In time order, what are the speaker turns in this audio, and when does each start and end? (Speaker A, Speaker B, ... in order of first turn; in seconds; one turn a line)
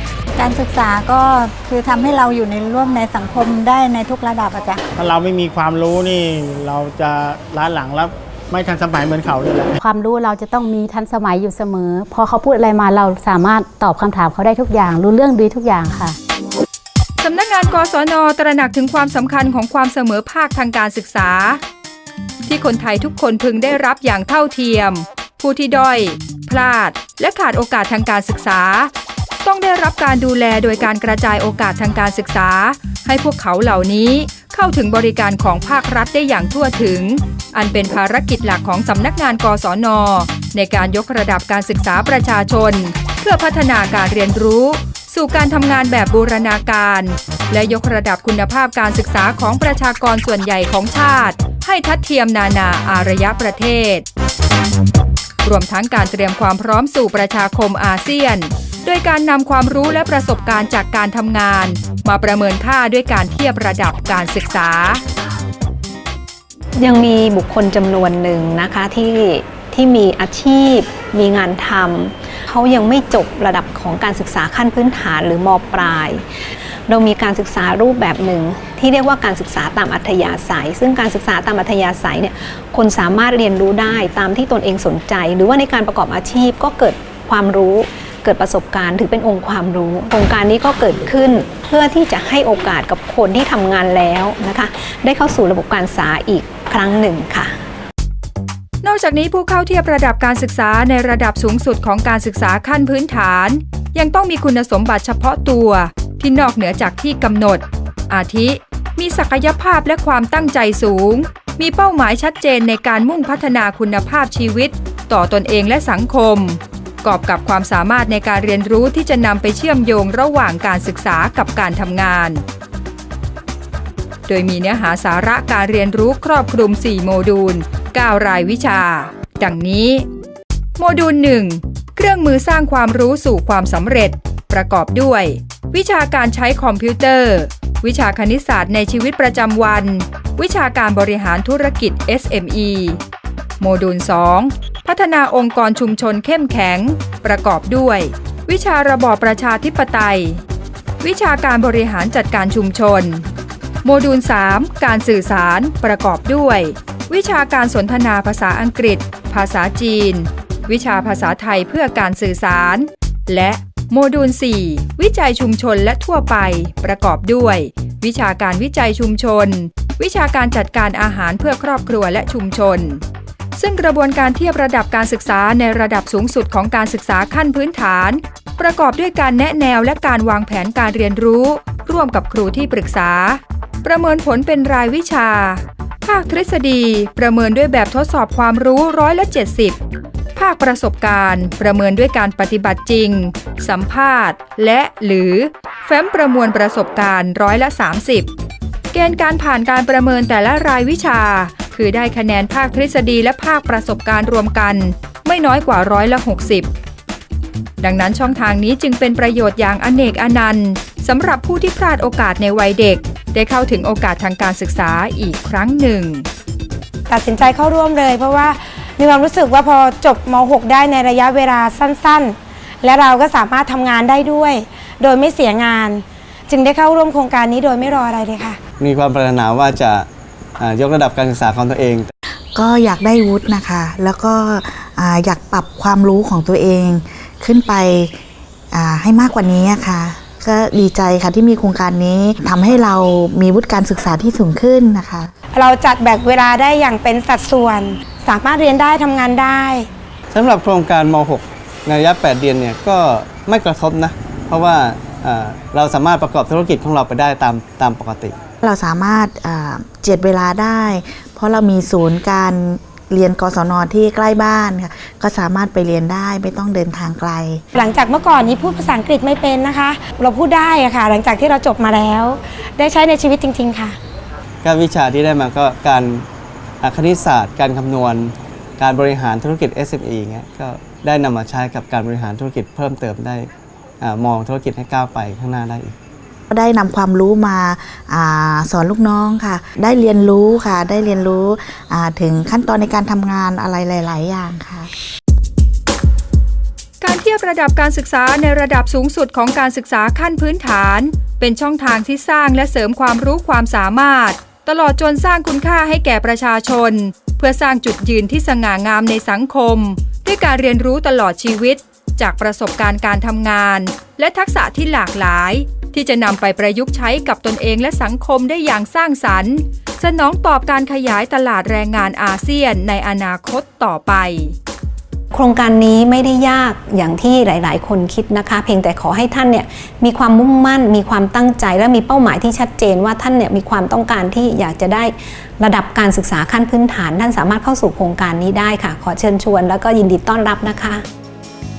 Speaker A: 0.4-4.8
Speaker B: 5.0-9.7
Speaker C: 9.8-16.2
Speaker D: 17.2-21.6
Speaker D: 22.4-28.9
Speaker D: 29.4-54.1
Speaker D: 55.4-65.0
Speaker E: 66.8-76.2
Speaker E: 76.9-97.5
Speaker D: 98.8-122.4
Speaker D: 124.3-130.1
Speaker D: 130.8-143.0
Speaker D: 143.6-150.4
Speaker D: 151.0-153.2
Speaker D: 153.8-173.0
Speaker D: 173.6-189.8
Speaker D: 190.4-198.3
Speaker D: 198.9-206.7
Speaker D: 207.8-216.3
Speaker F: 217.1-228.6
Speaker G: 228.8-230.1
Speaker G: 230.6-232.1
Speaker H: 232.6-238.2
Speaker H: 238.7-245.3
Speaker F: 245.5-249.9
Speaker G: 250.3-258.4
Speaker H: 258.6-267.6
Speaker F: 267.8-274.0
Speaker G: 274.6-276.3
Speaker G: 276.8-283.5
Speaker G: 284.0-285.9
Speaker H: 286.5-294.9
Speaker D: 297.0-324.6
Speaker E: 325.3-341.1